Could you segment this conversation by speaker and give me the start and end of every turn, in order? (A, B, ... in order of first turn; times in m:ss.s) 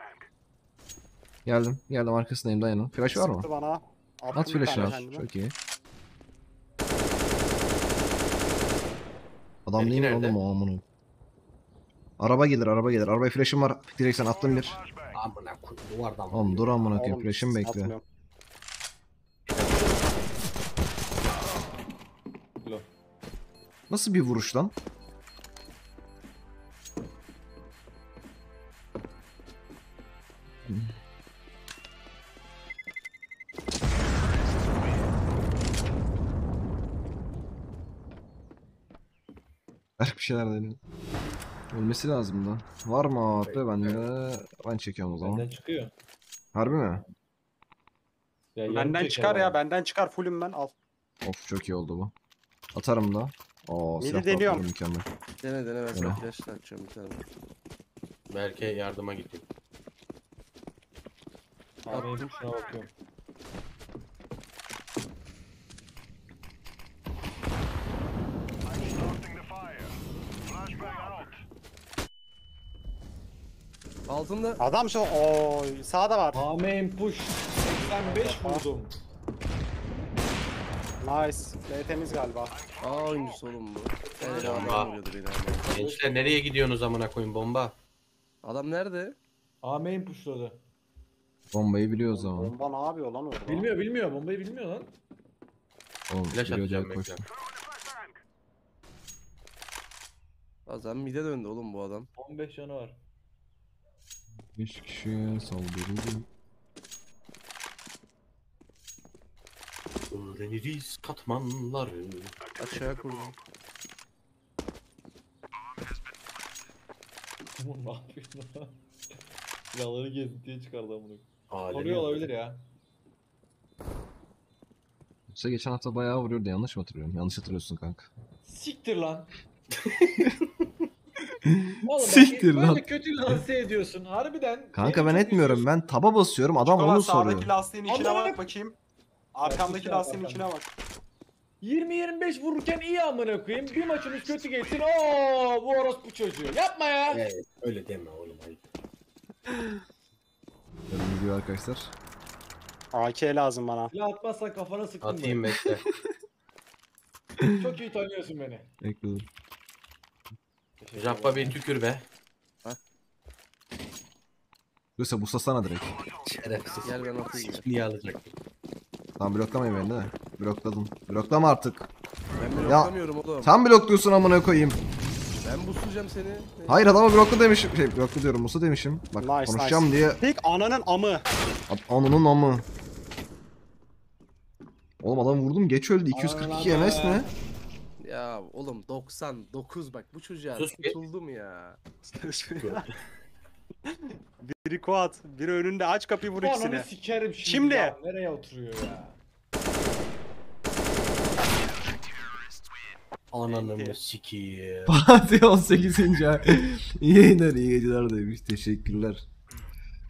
0:01.5-0:03.5 A
0:03.1-0:05.2 B
0:04.3-0:05.5 A
0:09.7-0:10.8 A
0:09.8-0:10.4 C
0:12.2-0:14.8 A
0:15.1-0:16.9 C
0:16.3-0:17.9 A
0:17.0-0:18.0 B
0:22.6-0:22.9 D
0:23.9-0:24.7 A
0:30.7-0:30.9 A
0:40.0-0:40.8 A
0:41.7-0:45.5 A
0:43.4-0:44.1 C
0:45.2-0:45.9 D
0:46.5-0:47.0 A
0:48.6-0:49.6 D
0:48.7-0:50.7 B
0:51.2-0:52.1 A
0:52.7-0:55.1 A
0:54.0-0:54.6 B
0:55.4-0:57.2 E
0:55.9-0:56.2 A
0:58.3-0:59.4 C
1:01.9-1:02.9 D
1:14.1-1:14.6 E
1:14.6-1:16.4 B
1:16.3-1:18.9 D
1:17.7-1:18.6 B
1:21.0-1:22.6 B
1:22.8-1:25.7 E
1:24.1-1:24.9 D
1:24.4-1:25.0 C
1:25.6-1:26.4 D
1:25.7-1:27.7 C
1:28.4-1:29.2 E
1:29.6-1:30.6 D
1:31.5-1:32.5 A
1:32.1-1:33.7 B
1:33.4-1:34.9 D
1:36.1-1:37.2 A
1:36.3-1:37.2 C
1:40.7-1:42.1 E
1:42.2-1:43.0 D
1:44.5-1:46.3 A
1:50.1-1:52.5 C
1:52.6-1:53.4 E
1:57.6-1:58.8 D
1:59.7-2:02.7 D
2:01.5-2:02.3 C
2:05.3-2:08.1 A
2:08.4-2:09.3 D
2:11.4-2:13.4 A
2:11.8-2:15.7 D
2:14.7-2:17.5 A
2:16.6-2:18.8 B
2:17.9-2:18.4 D
2:19.3-2:20.7 B
2:19.4-2:20.5 D
2:21.6-2:27.3 D
2:27.1-2:28.6 C
2:29.5-2:29.8 A
2:30.9-2:31.9 A
2:32.9-2:33.9 B
2:33.9-2:35.6 D
2:35.0-2:35.8 C
2:35.5-2:36.1 A
2:37.4-2:37.7 A
2:37.6-2:38.7 D
2:38.8-2:39.3 A
2:40.8-2:41.6 D
2:41.0-2:42.0 C
2:45.0-2:46.0 A
2:46.2-2:48.3 C
2:46.8-2:47.7 E
2:49.2-2:51.9 A
2:52.4-2:53.5 E
2:52.6-2:54.8 A
2:55.4-2:57.0 E
2:56.7-3:00.2 A
2:59.2-3:01.3 B
3:01.7-3:02.6 A
3:05.0-3:07.3 A
3:06.1-3:07.3 D
3:08.0-3:11.8 E
3:10.6-3:11.0 C
3:12.1-3:12.9 B
3:12.6-3:13.0 C
3:13.9-3:16.9 B
3:16.4-3:19.2 D
3:17.4-3:18.0 B
3:23.3-3:25.0 C
3:23.5-3:24.0 B
3:24.9-3:29.2 A